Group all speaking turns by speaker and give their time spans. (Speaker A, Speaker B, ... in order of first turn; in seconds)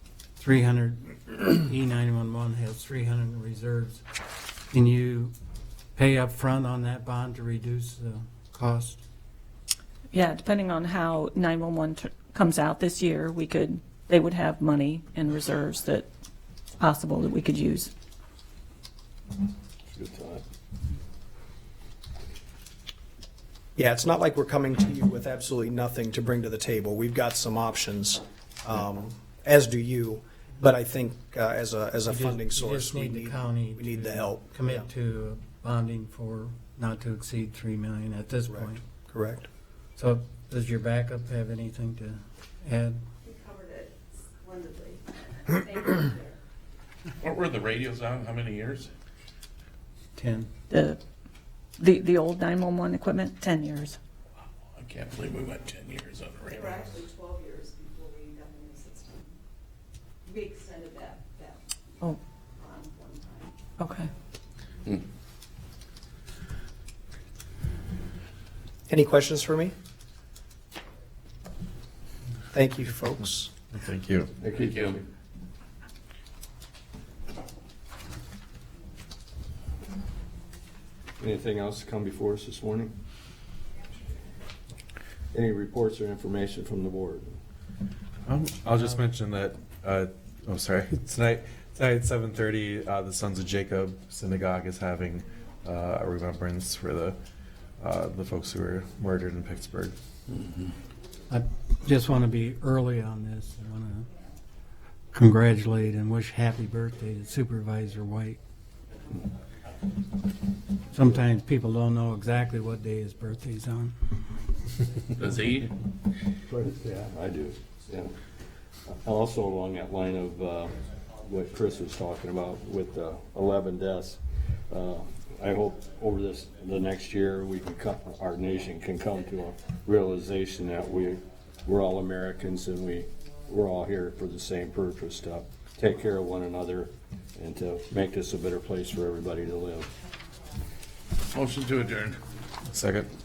Speaker A: 0.4-4.0, 4.7-5.3, 6.0-9.0, 32.1-38.8, 40.0-43.0, 50.1-50.5, 101.3-104.1, 105.1-108.4, 110.9-113.9
Speaker B: 10.1-16.1, 16.8-17.9, 50.7-51.0, 51.8-54.0, 63.8-64.1
Speaker C: 19.9-20.4, 74.4-75.0, 81.2-82.9, 85.3-87.4, 116.5-118.1, 118.9-139.9
Speaker D: 23.8-34.9, 38.5-39.5, 68.9-69.7, 72.5-73.5
Speaker E: 43.2-46.4, 56.6-59.3, 60.3-61.6, 62.6-63.5
Speaker F: 47.2-48.9, 54.7-57.0, 74.6-75.0, 115.1-115.7, 141.3-142.2
Speaker G: 73.7-74.3, 88.3-97.2, 97.8-99.9, 142.7-143.1